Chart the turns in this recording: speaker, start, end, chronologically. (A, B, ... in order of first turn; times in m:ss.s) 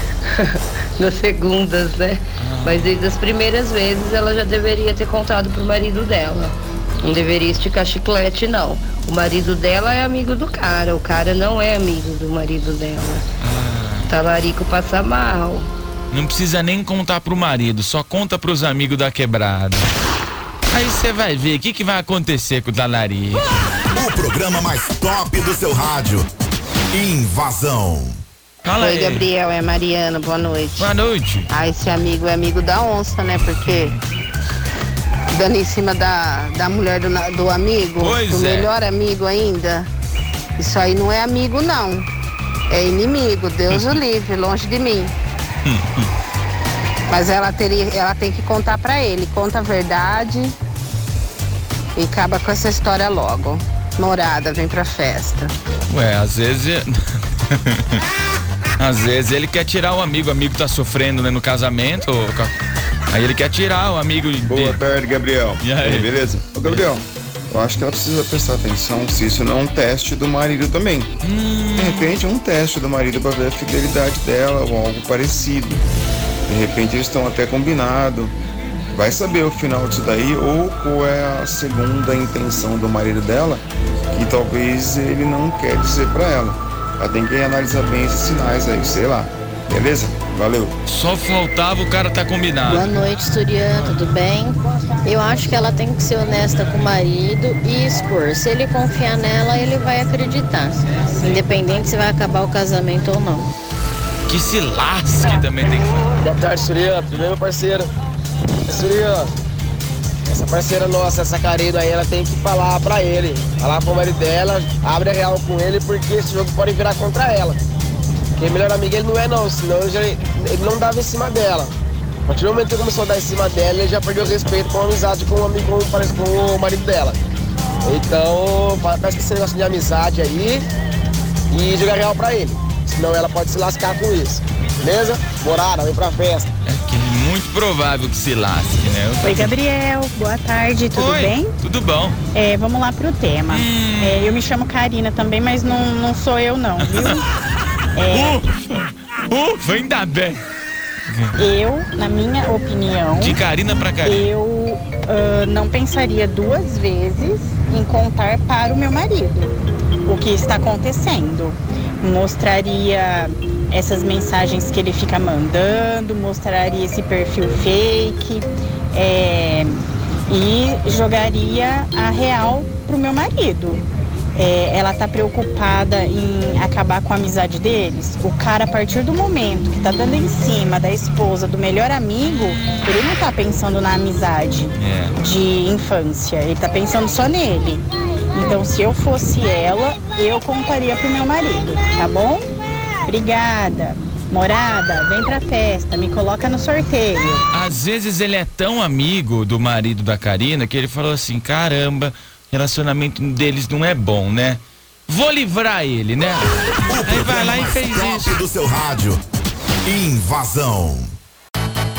0:01.0-0:13.2 A
0:02.4-0:02.9 B
0:13.4-0:14.1 B
0:14.1-0:15.7 A
0:16.1-0:19.9 B
0:20.7-0:23.4 B
0:23.9-0:26.2 C
0:26.9-0:28.2 C
0:28.6-0:29.2 B
0:28.9-0:30.8 D
0:30.8-0:31.5 B
0:31.5-0:33.9 D
0:33.6-0:34.0 B
0:35.3-0:39.9 D
0:38.0-0:38.7 B
0:40.6-0:42.0 D
0:42.7-0:45.1 D
0:43.7-0:44.0 B
0:45.6-0:46.1 B
0:47.1-0:50.5 D
0:52.0-0:55.5 D
0:55.9-0:58.0 B
0:58.8-1:02.5 B
1:03.1-1:04.8 B
1:04.4-1:11.1 E
1:05.6-1:06.1 B
1:11.2-1:12.1 B
1:11.8-1:15.8 E
1:16.5-1:18.3 E
1:18.9-1:30.7 E
1:30.8-1:33.0 B
1:32.7-1:34.5 F
1:35.0-1:43.5 F
1:44.2-1:46.0 B
1:46.2-1:47.9 G
1:48.7-1:49.3 G
1:50.3-1:57.6 G
1:58.4-2:01.7 G
2:02.3-2:07.2 G
2:07.8-2:10.6 G
2:11.5-2:16.5 G
2:16.6-2:19.5 B
2:19.2-2:21.5 H
2:20.9-2:22.2 B
2:22.3-2:27.2 H
2:23.5-2:24.4 B
2:26.8-2:27.2 B
2:28.0-2:28.4 H
2:28.1-2:30.4 B
2:31.1-2:31.4 B
2:31.4-2:33.4 H
2:33.1-2:34.3 B
2:34.0-2:39.5 H
2:40.0-2:49.8 H
2:50.3-2:53.8 H
2:54.4-3:12.4 H
3:02.4-3:02.9 B
3:04.7-3:05.2 B
3:13.0-3:17.4 H
3:17.5-3:26.4 B
3:26.9-3:29.2 C
3:27.0-3:28.4 B
3:29.8-3:31.1 C